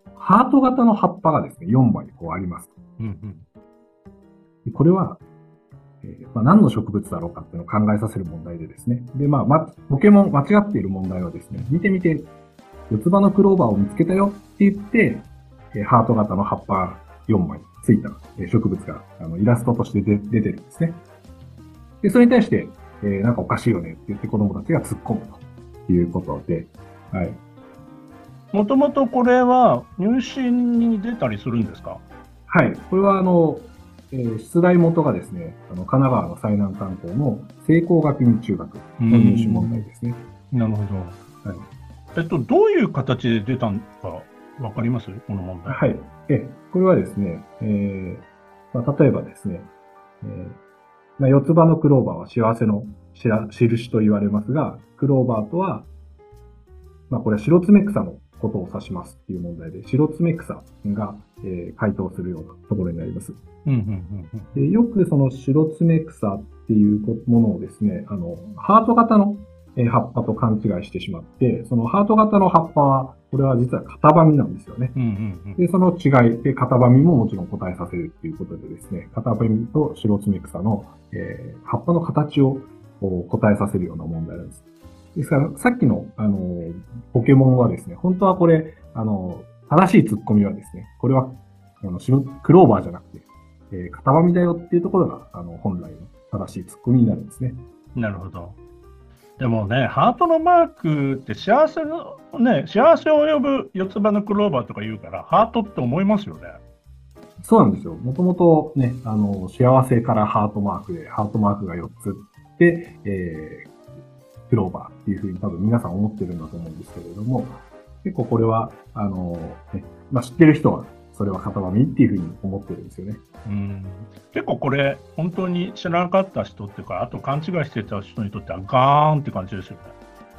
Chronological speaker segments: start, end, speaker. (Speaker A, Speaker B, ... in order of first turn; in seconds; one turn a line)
Speaker A: 0.2-2.8
Speaker B: 3.0-3.5
Speaker A: 4.7-5.2
Speaker A: 6.0-12.3
Speaker A: 12.9-21.0
Speaker A: 22.0-27.4
Speaker B: 28.5-32.0
Speaker A: 32.5-40.3
Speaker B: 39.0-39.8
Speaker B: 40.5-41.2
Speaker B: 42.1-45.8
Speaker A: 45.7-49.7
Speaker A: 50.2-50.6
Speaker A: 51.2-55.9
Speaker A: 57.1-63.4
Speaker B: 63.6-64.5
Speaker A: 64.5-75.0
Speaker B: 75.0-75.6
Speaker A: 75.6-84.6
Speaker A: 85.2-97.6
Speaker B: 98.0-98.6
Speaker B: 99.4-106.6
Speaker A: 107.4-113.8
Speaker A: 114.5-123.2
Speaker B: 123.5-129.9